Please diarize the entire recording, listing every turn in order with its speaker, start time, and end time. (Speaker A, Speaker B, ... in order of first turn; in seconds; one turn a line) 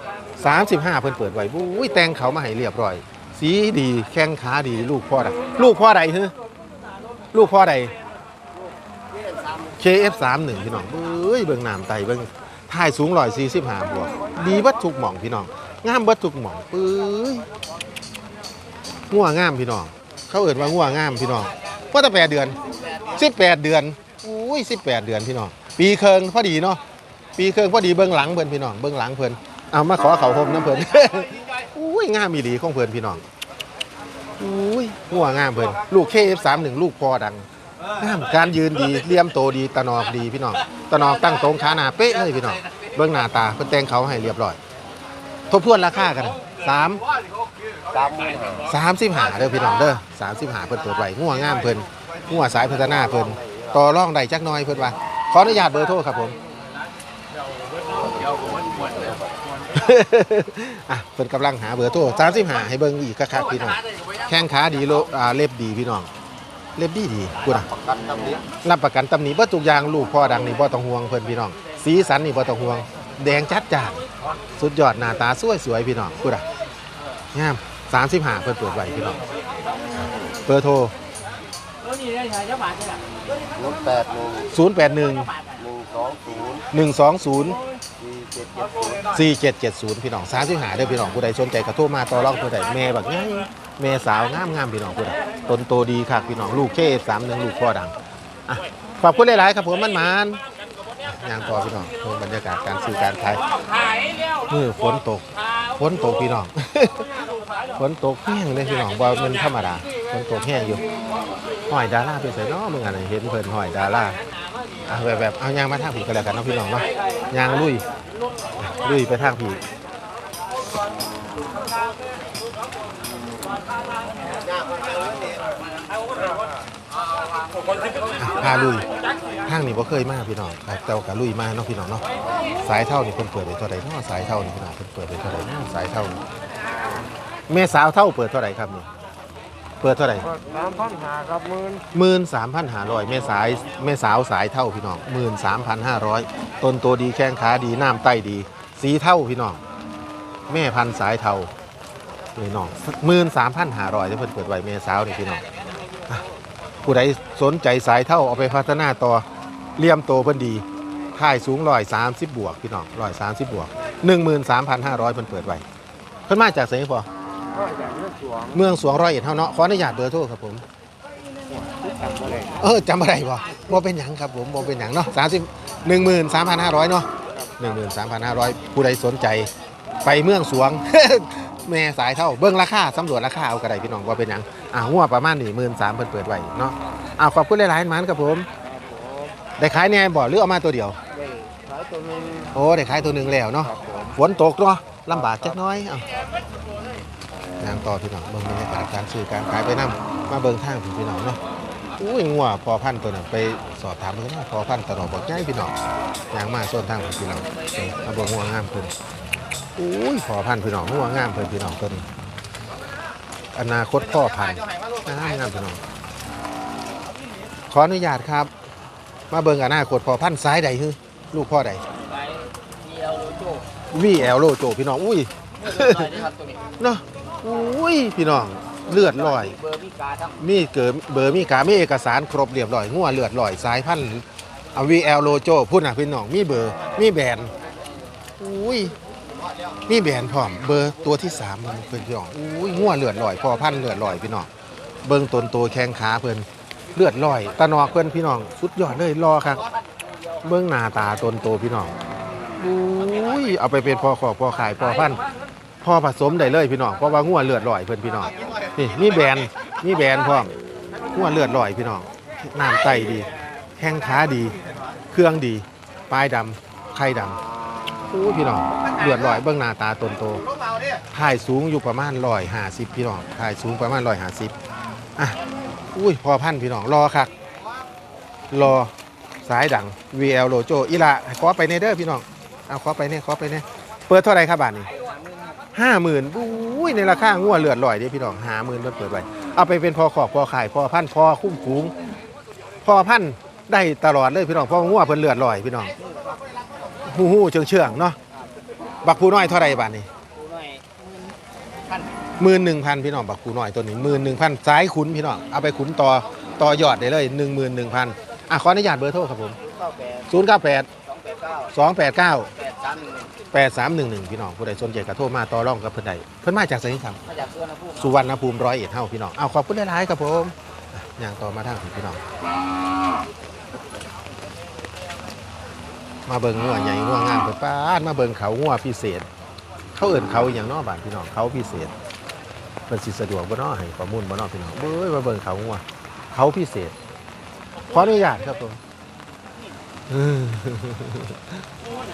Speaker A: 0.4-6.3
Speaker A: 7.3-7.9
Speaker A: 9.8-17.4
Speaker A: 19.1-26.8
Speaker A: 27.4-33.2
Speaker A: 34.4-37.5
Speaker A: 38.0-44.6
Speaker A: 45.5-47.0
Speaker B: 47.9-48.5
Speaker A: 48.6-56.4
Speaker B: 58.4-59.0
Speaker A: 59.7-66.1
Speaker A: 66.8-67.7
Speaker A: 68.6-74.0
Speaker A: 74.5-76.4
Speaker A: 77.3-79.2
Speaker A: 80.4-80.9
Speaker B: 82.2-82.8
Speaker B: 83.6-84.3
Speaker A: 84.5-85.3
Speaker B: 85.7-86.5
Speaker A: 86.7-87.6
Speaker B: 88.6-88.9
Speaker A: 89.0-100.4
Speaker A: 101.0-103.4
Speaker A: 104.5-107.1
Speaker A: 107.8-110.8
Speaker A: 111.7-114.2
Speaker A: 114.9-117.8
Speaker A: 118.6-119.6
Speaker A: 128.2-128.8
Speaker A: 129.4-132.0
Speaker A: 132.6-136.2
Speaker A: 137.5-138.9
Speaker A: 139.8-140.3
Speaker B: 140.2-141.8
Speaker A: 141.9-149.6
Speaker A: 150.5-151.5
Speaker A: 152.3-155.4
Speaker A: 156.8-159.2
Speaker A: 159.8-165.6
Speaker A: 166.3-167.1
Speaker B: 167.5-168.6
Speaker A: 168.5-170.6
Speaker B: 171.5-172.7
Speaker A: 172.6-179.5
Speaker A: 180.0-188.5
Speaker B: 188.6-189.3
Speaker A: 189.6-191.0
Speaker B: 191.1-192.5
Speaker A: 192.5-196.1
Speaker B: 193.6-194.1
Speaker B: 195.2-195.6
Speaker A: 197.6-201.4
Speaker A: 202.0-205.7
Speaker A: 206.3-208.9
Speaker A: 209.8-212.1
Speaker A: 213.5-215.8
Speaker A: 217.7-218.5
Speaker A: 219.3-221.8
Speaker C: 221.9-223.6
Speaker A: 223.9-226.2
Speaker C: 225.7-226.7
Speaker A: 226.8-229.6
Speaker C: 228.9-230.3
Speaker A: 230.4-237.5
Speaker A: 238.4-238.9
Speaker A: 239.9-244.5
Speaker A: 245.0-249.7
Speaker A: 250.4-251.9
Speaker A: 252.6-255.2
Speaker A: 255.8-260.5
Speaker A: 261.1-264.6
Speaker A: 265.1-267.4
Speaker A: 268.1-270.4
Speaker A: 271.1-274.5
Speaker A: 275.9-277.3
Speaker A: 278.5-278.9
Speaker A: 279.4-284.9
Speaker B: 285.0-285.4
Speaker A: 285.7-291.9
Speaker A: 292.8-295.9
Speaker A: 297.0-298.2
Speaker A: 299.0-300.1
Speaker C: 300.4-300.8
Speaker A: 302.4-309.6
Speaker C: 309.6-310.2
Speaker A: 310.3-310.9
Speaker C: 311.1-311.7
Speaker A: 311.7-312.5
Speaker C: 312.5-313.3
Speaker A: 313.5-317.2
Speaker C: 317.3-318.1
Speaker A: 318.0-322.2
Speaker A: 326.2-329.3
Speaker A: 329.9-331.9
Speaker A: 332.9-336.9
Speaker A: 337.9-338.8
Speaker A: 340.1-341.6